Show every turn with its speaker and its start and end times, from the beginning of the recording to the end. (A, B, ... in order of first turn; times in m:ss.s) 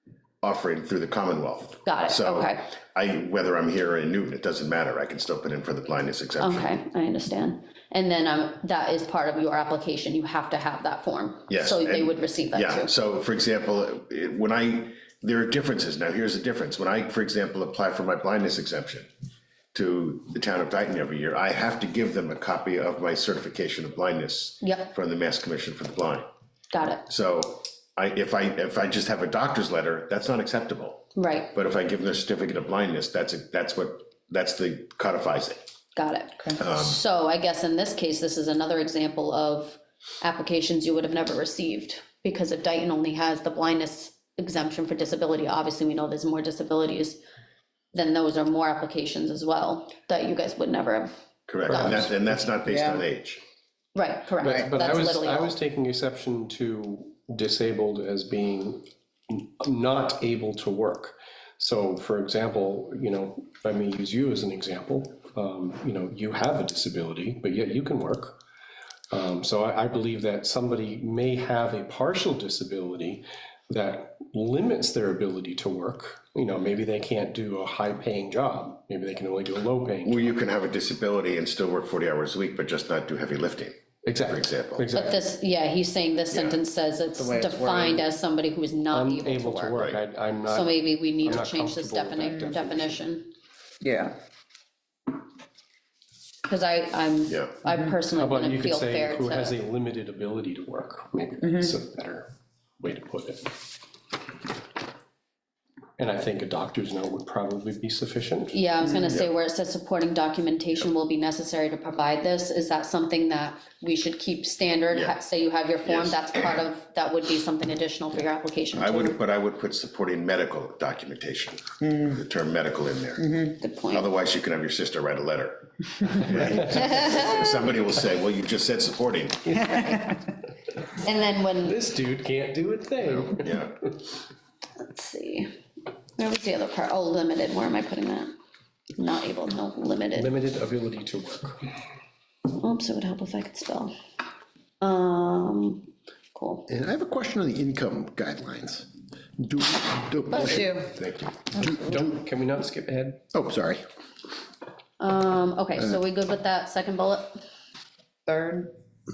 0:00.4-0:06.7 A
0:01.8-0:02.6 B
0:06.4-0:12.9 B
0:11.5-0:19.1 A
0:19.7-0:26.3 A
0:24.6-0:24.9 B
0:26.7-0:27.0 B
0:27.0-0:35.6 A
0:31.2-0:31.5 B
0:36.0-0:47.2 B
0:36.6-0:37.0 A
0:47.9-0:51.1 B
0:51.5-0:53.4 A
0:51.6-0:52.2 B
0:52.6-0:53.0 C
0:53.9-0:55.6 B
0:54.4-1:08.4 D
1:09.1-1:20.4 D
1:20.0-1:24.9 A
1:24.0-1:25.2 D
1:24.9-1:29.7 B
1:26.3-1:26.6 A
1:27.2-1:28.0 C
1:28.9-1:33.0 D
1:29.8-1:30.0 A
1:30.5-1:33.3 B
1:33.8-1:34.2 C
1:36.5-1:39.6 B
1:37.3-1:37.6 A
1:38.1-1:42.3 D
1:41.4-1:41.7 C
1:42.8-1:43.6 D
1:46.0-1:48.6 D
1:48.5-1:59.2 B
1:54.9-1:55.2 A
1:55.8-1:56.6 A
1:58.7-2:03.4 A
2:01.8-2:02.2 C
2:03.2-2:03.6 C
2:03.6-2:04.1 B
2:03.9-2:10.0 A
2:06.3-2:07.3 D
2:06.7-2:07.1 B
2:09.6-2:10.2 D
2:11.0-2:11.8 B
2:11.6-2:13.7 D
2:13.0-2:13.8 A
2:14.8-2:15.5 B
2:16.2-2:18.3 B
2:19.0-2:20.3 B
2:20.1-2:21.7 D
2:22.5-2:23.9 B
2:24.8-2:26.7 B
2:26.7-2:30.8 E
2:30.3-2:30.6 B
2:30.4-2:31.0 C
2:30.7-2:33.2 D
2:33.3-2:33.8 E
2:35.0-2:37.4 B
2:38.3-2:38.7 C